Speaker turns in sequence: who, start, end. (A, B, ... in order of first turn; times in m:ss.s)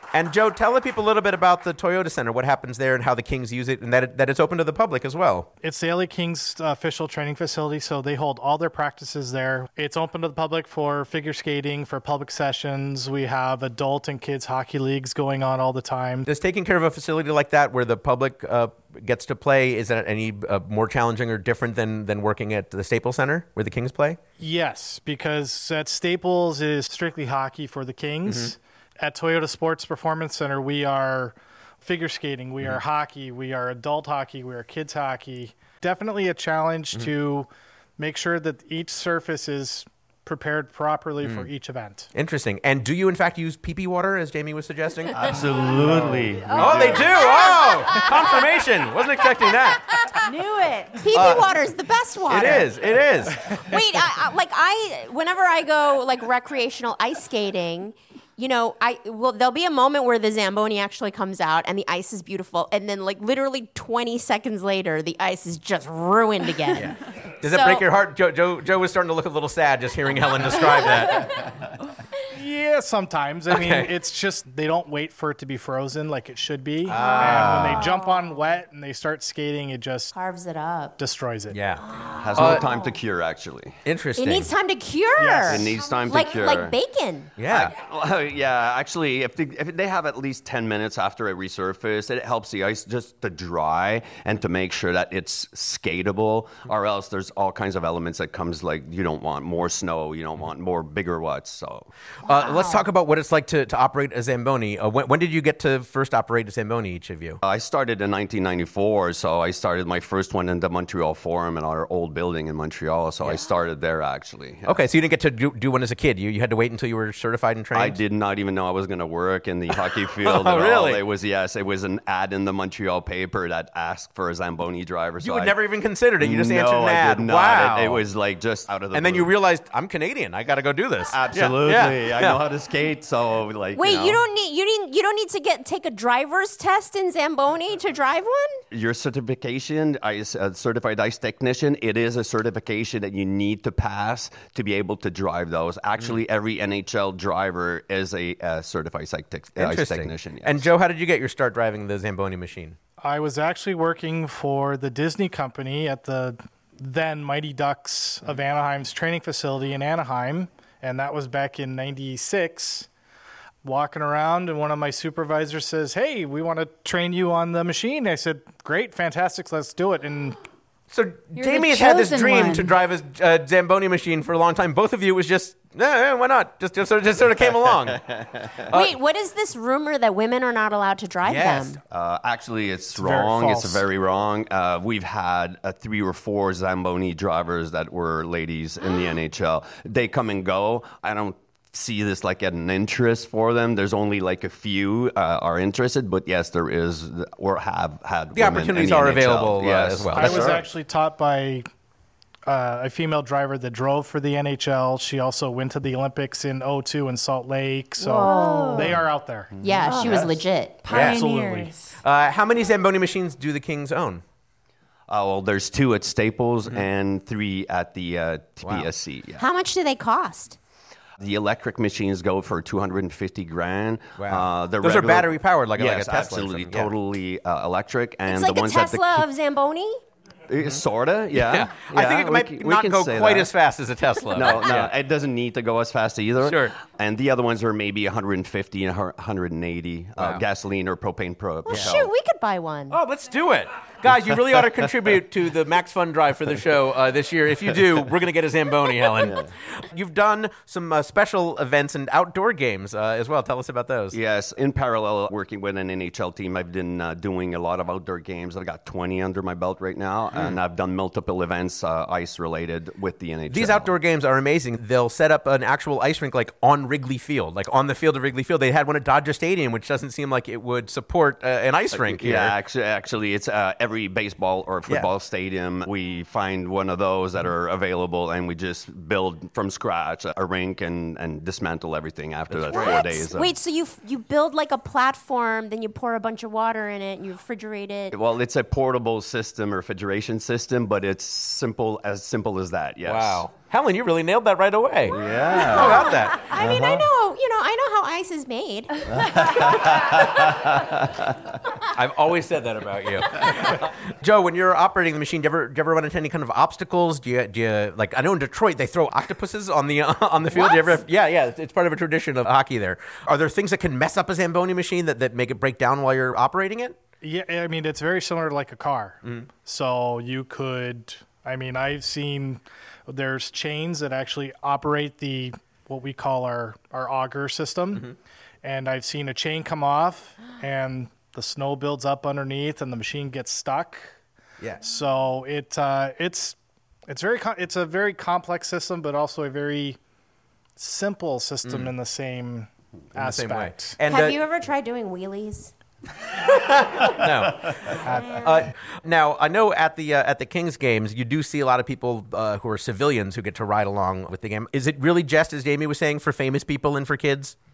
0:00.1-0:05.5 A
0:05.6-0:16.3 B
0:16.3-0:24.2 A
0:24.4-0:42.1 B
0:28.2-0:28.5 A
0:41.2-0:41.5 A
0:42.1-0:45.4 A
0:45.1-0:47.2 C
0:45.9-0:46.2 B
0:46.5-0:49.8 A
0:47.1-0:48.2 D
0:50.2-0:51.1 E
0:51.0-0:52.8 D
0:51.1-0:51.5 A
0:52.3-0:53.5 A
0:53.4-1:07.8 D
1:06.7-1:11.3 A
1:12.3-1:20.1 B
1:13.5-1:13.9 A
1:16.9-1:17.9 A
1:16.9-1:18.2 D
1:20.1-1:21.0 D
1:21.0-1:21.6 B
1:21.5-1:21.8 A
1:21.8-1:23.0 D
1:22.2-1:23.8 C
1:22.4-1:22.6 A
1:23.8-1:24.5 A
1:24.2-1:27.3 D
1:25.2-1:25.7 B
1:25.4-1:26.8 C
1:27.4-1:27.8 A
1:27.4-1:41.9 C
1:42.2-1:47.4 A
1:42.3-1:42.9 D
1:47.4-1:54.8 C
1:54.7-1:58.0 A
1:57.7-2:05.6 C
2:00.2-2:01.0 A
2:05.2-2:08.0 A
2:06.2-2:09.3 C
2:08.9-2:12.4 A
2:11.1-2:14.2 C
2:13.8-2:18.6 D
2:18.7-2:30.7 C
2:29.6-2:32.8 A
2:33.0-2:42.9 B
2:43.6-2:50.4 B
2:50.9-2:58.0 A
2:51.4-2:52.7 E
2:58.7-2:59.0 A
2:58.7-3:01.8 D
3:01.2-3:01.8 A
3:01.9-3:20.7 C
3:03.0-3:03.8 B
3:18.3-3:20.6 A
3:20.1-3:21.7 B
3:22.5-3:29.5 B
3:28.1-3:29.0 E
3:28.2-3:28.8 D
3:29.6-3:30.4 C
3:29.6-3:30.8 D
3:29.9-3:30.2 E
3:30.8-3:32.0 E
3:30.9-3:31.2 A
3:30.9-3:31.7 B
3:32.0-3:34.2 A
3:35.1-3:39.5 C
3:38.6-3:38.9 A
3:39.4-3:40.6 D
3:41.2-3:49.3 C
3:44.2-3:46.9 A
3:48.3-3:50.0 D
3:50.5-3:53.5 C
3:51.3-3:54.9 A
3:54.3-4:02.1 C
3:56.4-3:56.8 A
4:00.2-4:00.4 A
4:01.7-4:03.0 D
4:01.7-4:01.9 A
4:02.9-4:14.2 A
4:14.1-4:23.9 C
4:20.3-4:20.6 A
4:23.5-4:32.6 A
4:31.9-4:43.5 C
4:42.5-4:43.1 A
4:42.7-4:48.2 D
4:48.1-4:53.4 C
4:53.0-4:56.5 A
4:55.1-4:57.1 C
4:55.5-5:00.3 D
4:59.1-5:01.4 C
5:01.9-5:17.0 A
5:10.6-5:11.0 D
5:17.2-5:28.1 B
5:28.6-5:34.1 B
5:34.8-5:36.6 B
5:37.1-5:40.0 B
5:40.8-5:44.0 B
5:41.6-5:41.9 A
5:43.2-5:44.4 A
5:44.1-5:45.7 D
5:46.5-5:57.6 A